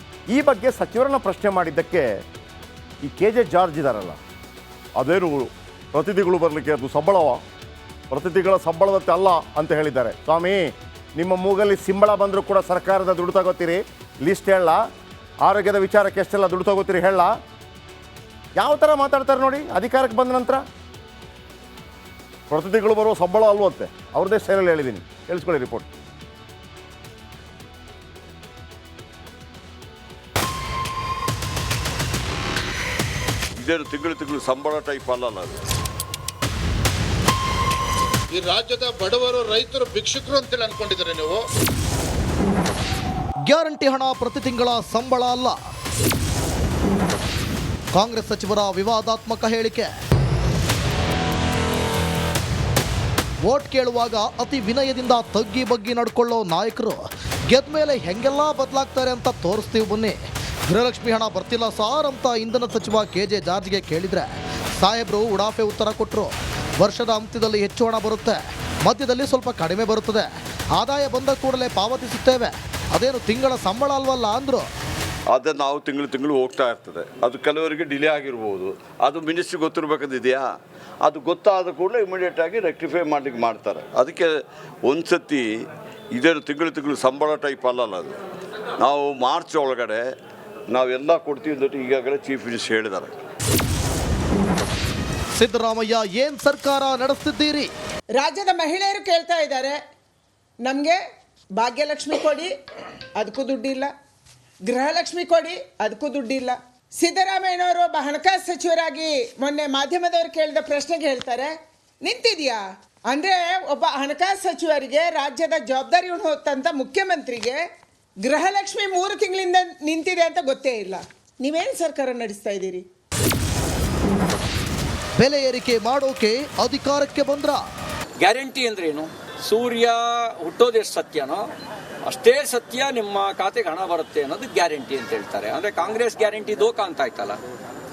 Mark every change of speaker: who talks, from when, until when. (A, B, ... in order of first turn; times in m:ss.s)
0:00.3-0:02.1 A
0:03.0-0:04.2 A
0:05.0-0:07.4 A
0:08.1-0:14.8 A
0:15.5-0:17.3 A
0:18.6-0:20.6 A
0:22.5-0:25.9 A
0:33.5-0:35.5 B
0:38.3-0:41.4 C
0:43.5-0:45.5 D
0:48.0-0:49.9 D
0:53.4-1:14.7 D
1:15.3-1:20.5 B
1:21.0-1:24.3 B
1:24.9-1:25.5 B
1:26.1-1:28.2 B
1:28.8-1:30.0 B
1:30.7-1:33.2 B
1:35.4-1:37.7 D
1:38.2-1:39.8 E
1:40.6-1:41.0 E
1:41.6-1:42.5 E
1:43.2-1:43.9 E
1:44.7-1:57.6 E
1:58.2-2:02.8 E
2:05.2-2:07.6 D
2:08.2-2:11.5 F
2:12.1-2:17.4 F